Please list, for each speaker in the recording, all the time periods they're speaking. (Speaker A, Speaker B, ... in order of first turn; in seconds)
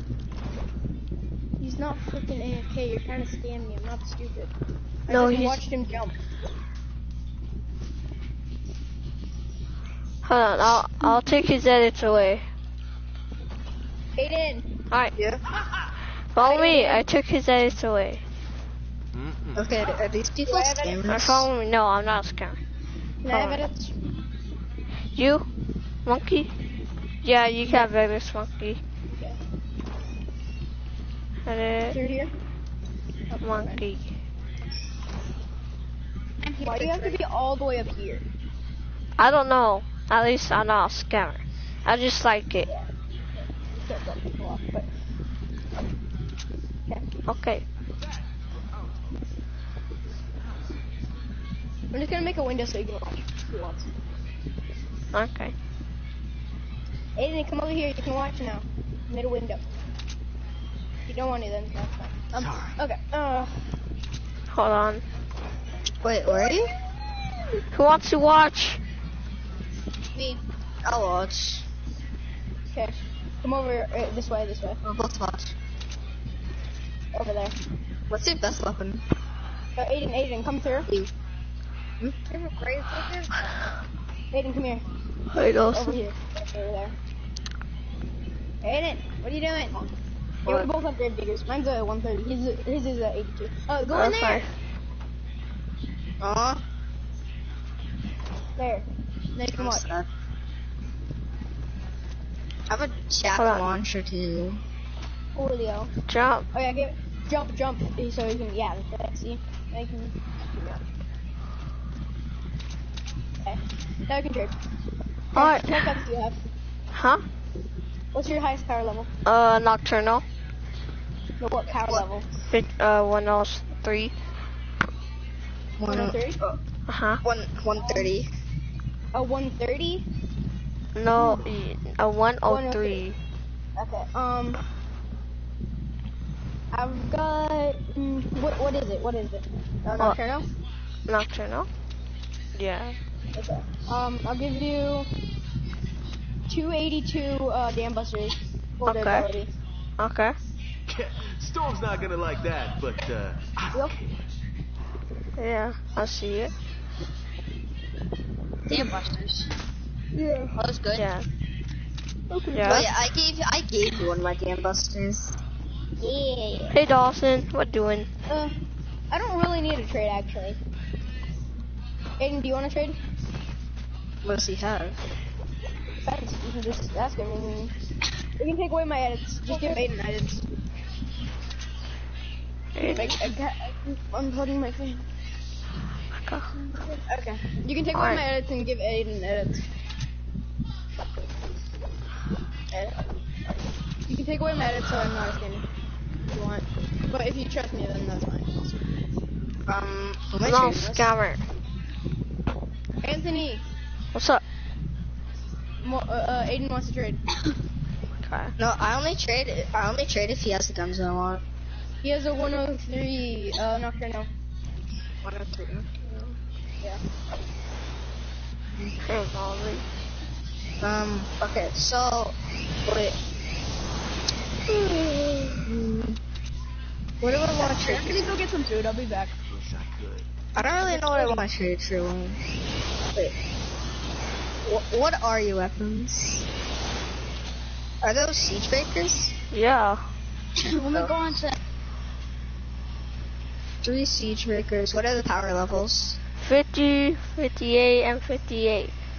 Speaker A: 1.6-4.5, 5.1-6.2, 14.2-14.7, 16.4-17.1, 20.4-21.1, 23.2-23.9, 29.1-29.4, 31.9-32.3, 33.3-33.8, 36.6-38.3, 43.7-44.9, 51.9-53.9, 57.2-59.6, 61.1-63.6, 72.7-74.8, 77.1-77.6, 79.8-80.9, 84.3-84.9, 85.6-87.0, 88.6-89.9, 90.5-94.5, 98.6-99.9, 105.3-105.9, 106.5-110.8, 113.4-114.5, 115.3-116.4, 118.1-119.1, 121.4-122.3, 125.8-126.4, 127.8-128.1, 129.1-130.1, 132.5-133.0, 133.8-134.6, 136.7-140.5, 143.3-145.1, 146.5-149.5, 153.7-154.0, 160.2-160.5, 162.3-162.9, 166.0-166.8, 168.3-170.6, 172.2-173.0, 176.0-177.7, 178.4-180.4, 182.8-185.1, 186.7-189.7, 194.1-195.7, 196.3-198.8, 203.0-203.7, 205.8-207.2, 212.0-214.3, 227.6-229.3, 230.6-231.5
Speaker B: 5.1-5.6, 10.2-12.4, 14.9-15.2, 16.3-18.2, 21.1-22.6, 23.3-23.7, 25.1-25.5, 26.1-26.5, 27.2-28.8, 31.5-32.0, 33.4-34.1, 39.2-42.7, 47.3-47.6, 55.1-55.5, 64.5-65.0, 67.7-68.8, 85.3-86.0, 93.9-94.5, 103.4-103.7, 106.0-106.5, 115.3-116.0, 116.9-117.2, 119.2-120.2, 122.5-124.1, 126.9-127.2, 130.9-133.2, 141.1-141.7, 142.6-143.0, 148.8-149.3, 150.0-150.4, 155.4-156.5, 160.9-161.3, 162.5-162.9, 166.7-168.1, 182.8-183.2, 186.1-186.5, 187.9-188.2, 200.4-201.4, 204.2-204.4, 208.2-208.5, 219.1-219.9, 239.5-240.0, 246.4-248.9
Speaker C: 15.2-15.4, 19.6-21.5, 66.0-66.7, 70.8-71.7, 74.8-75.5, 78.1-79.0, 80.9-81.1, 90.5-90.7, 96.2-96.6, 99.4-100.1, 102.7-104.6, 125.8-126.6, 127.2-128.3, 162.6-165.4, 174.2-175.0, 199.7-201.1, 208.6-211.4, 215.2-216.4, 220.8-223.2, 225.6-226.2, 227.2-228.3, 230.6-232.4, 234.7-236.5, 238.0-239.3, 240.7-241.2, 243.8-246.2
Speaker D: 19.1-19.7, 48.0-49.2, 62.3-62.8, 131.2-131.5, 150.9-153.9, 229.5-230.3
Speaker E: 36.4-37.2, 82.3-83.7, 158.7-159.5, 160.5-161.1, 240.7-241.6